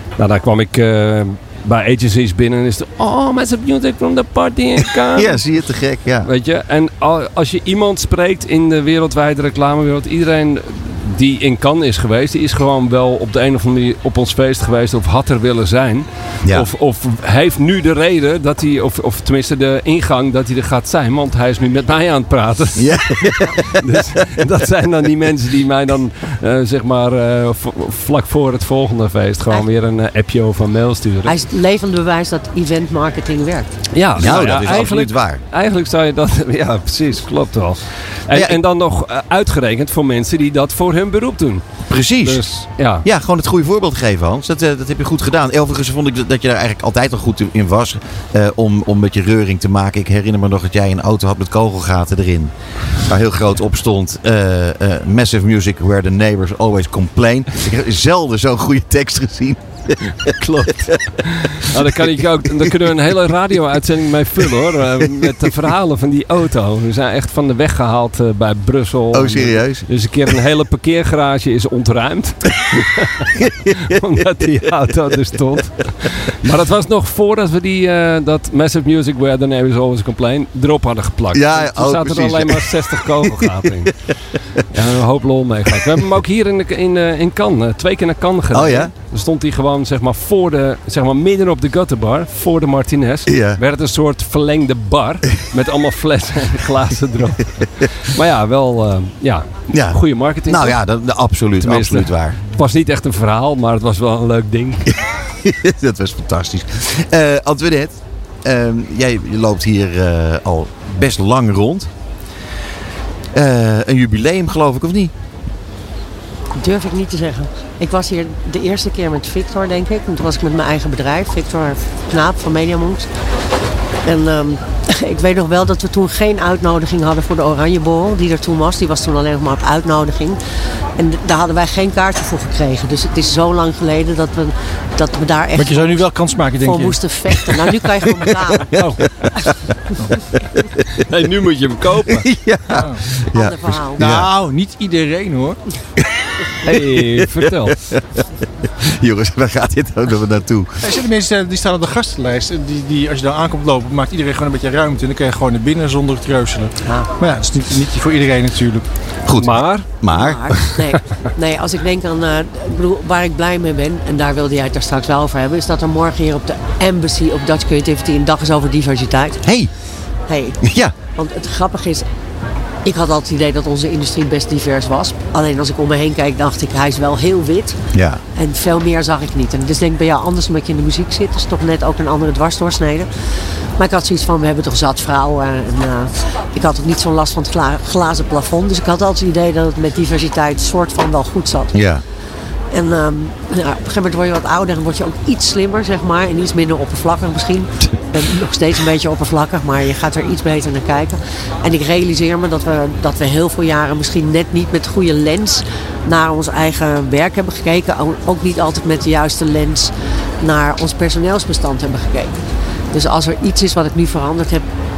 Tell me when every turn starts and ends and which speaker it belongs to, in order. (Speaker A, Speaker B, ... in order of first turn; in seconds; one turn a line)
Speaker A: 0.2-5.6
Speaker B: 5.1-6.3
Speaker A: 6.2-31.4
Speaker B: 22.8-24.0
Speaker C: 31.2-33.8
Speaker A: 33.9-41.6
Speaker B: 34.1-35.4
Speaker B: 38.3-38.6
Speaker B: 41.9-52.5
Speaker A: 42.2-43.0
Speaker B: 53.0-60.9
Speaker A: 60.2-84.0
Speaker B: 61.7-62.1
Speaker B: 69.1-69.9
Speaker B: 73.3-74.4
Speaker B: 81.3-83.9
Speaker A: 84.5-100.8
Speaker B: 88.5-88.9
Speaker B: 93.3-93.6
Speaker B: 99.7-102.4
Speaker A: 101.6-104.9
Speaker B: 104.9-111.9
Speaker B: 113.3-115.1
Speaker C: 116.5-123.1
Speaker C: 124.0-130.4
Speaker C: 130.9-136.0
Speaker D: 135.5-137.5
Speaker C: 136.6-138.7
Speaker D: 140.0-140.2
Speaker A: 140.9-142.3
Speaker B: 142.1-144.3
Speaker C: 143.3-144.1
Speaker D: 144.0-145.8
Speaker B: 146.0-148.2
Speaker A: 146.6-147.8
Speaker B: 148.8-150.8
Speaker D: 150.8-158.8
Speaker C: 156.8-157.1
Speaker B: 159.2-160.4
Speaker A: 159.3-159.9
Speaker C: 160.1-169.4
Speaker B: 169.4-169.7
Speaker C: 170.3-170.6
Speaker B: 170.6-170.9
Speaker C: 171.1-172.1
Speaker C: 172.8-177.8
Speaker B: 177.9-178.2
Speaker C: 178.3-183.1
Speaker C: 183.8-191.8
Speaker B: 191.7-192.0
Speaker C: 192.7-212.4
Speaker C: 212.9-214.7